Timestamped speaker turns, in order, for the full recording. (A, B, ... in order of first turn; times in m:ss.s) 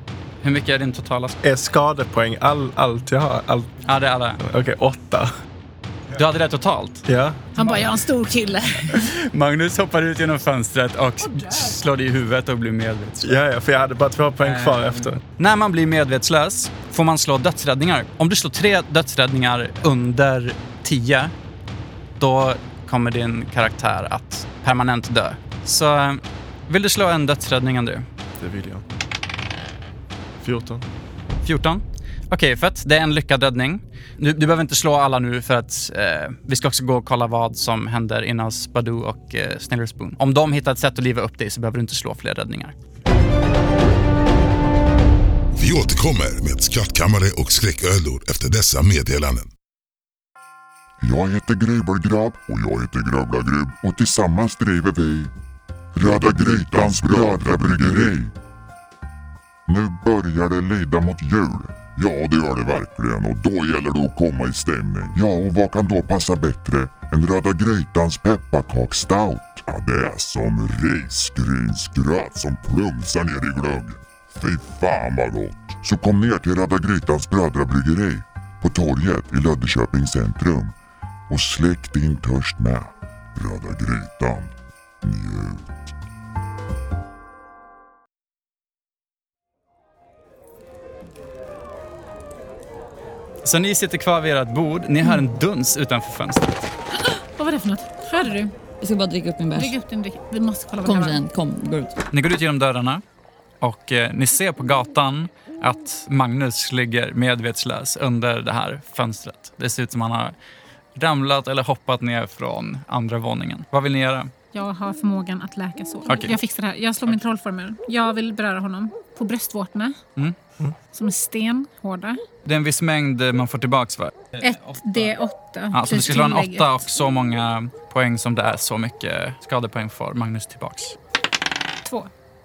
0:00.4-0:01.4 A
0:01.4-0:03.7 B
0:03.8-0:04.4 A
0:04.4-0:05.3 B
0:06.1-0:07.0 A
0:07.0-0:07.6 B
0:07.6-0:09.0 C
0:08.9-0:13.4 A
0:13.2-0:15.2 B
0:14.4-0:21.3 A
0:22.2-0:28.0 A
0:28.4-0:28.8 B
0:30.4-0:30.8 B
0:31.4-0:42.7 A
0:45.5-0:49.5 D
0:51.0-0:55.3 E
0:56.0-0:58.3 E
0:56.0-0:58.1 D
0:59.7-1:20.7 E
1:21.3-1:25.8 E
1:33.4-1:36.6 A
1:37.4-1:38.5 C
1:38.8-1:39.7 F
1:39.5-1:41.2 C
1:40.8-1:42.0 F
1:42.1-1:43.0 A
1:43.6-1:50.3 A
1:51.0-1:54.3 A
1:54.5-2:00.0 C
1:56.1-1:56.4 A
2:00.9-2:02.2 C
2:02.4-2:04.3 A
2:04.4-2:06.8 C
2:05.7-2:11.0 A
2:11.8-2:12.1 C